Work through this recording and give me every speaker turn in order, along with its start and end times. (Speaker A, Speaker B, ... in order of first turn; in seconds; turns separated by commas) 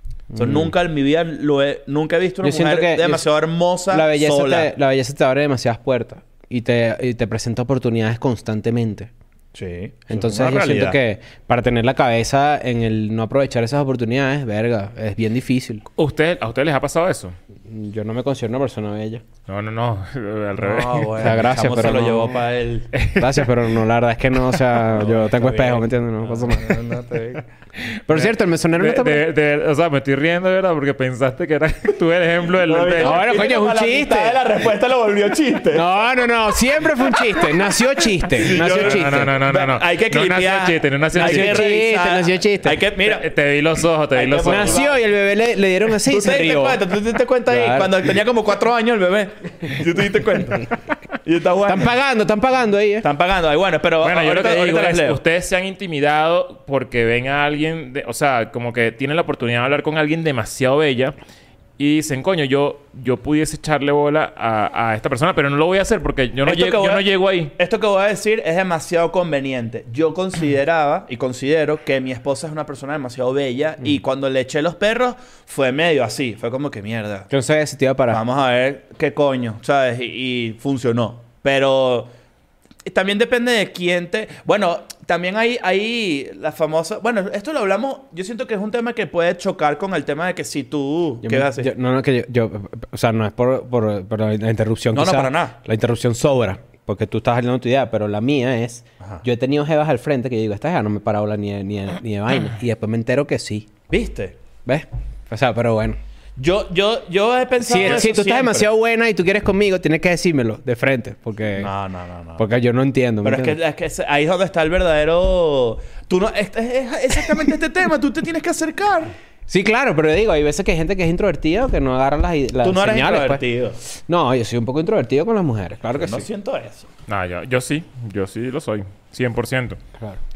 Speaker A: 0.3-0.7, Speaker B: 0.3-4.7, Speaker A: 2.4-3.2, Speaker A: 3.9-9.1, Speaker B: 9.5-11.0, Speaker A: 10.1-15.8, Speaker C: 15.9-17.3, Speaker A: 17.7-19.2, Speaker C: 19.5-21.2, Speaker B: 20.6-22.9, Speaker A: 21.2-22.4, Speaker C: 22.9-23.7, Speaker A: 23.1-26.8, Speaker B: 24.9-27.4, Speaker C: 27.8-33.3, Speaker A: 28.1-29.2, Speaker B: 32.6-35.9, Speaker A: 33.0-34.4, Speaker A: 35.7-39.3, Speaker B: 37.1-37.4, Speaker B: 38.3-43.3, Speaker C: 38.5-41.8, Speaker A: 41.1-42.8, Speaker C: 43.0-44.8, Speaker B: 44.1-45.0, Speaker A: 44.4-46.8, Speaker B: 46.0-50.7, Speaker A: 47.5-47.9, Speaker B: 51.2-51.9, Speaker A: 51.6-53.0, Speaker B: 53.0-55.2, Speaker C: 54.0-61.1, Speaker C: 61.8-67.5, Speaker B: 66.4-77.3, Speaker A: 77.3-78.2, Speaker B: 78.1-82.1, Speaker B: 82.8-91.7, Speaker A: 91.2-103.7, Speaker B: 94.9-95.5, Speaker B: 103.9-104.4, Speaker A: 104.7-106.0, Speaker B: 106.4-108.7, Speaker A: 107.6-111.7, Speaker B: 111.6-112.4, Speaker A: 112.4-113.6, Speaker B: 113.2-119.1, Speaker A: 119.5-123.4, Speaker B: 122.6-123.8, Speaker A: 124.0-126.3, Speaker B: 125.9-126.9, Speaker C: 127.1-129.8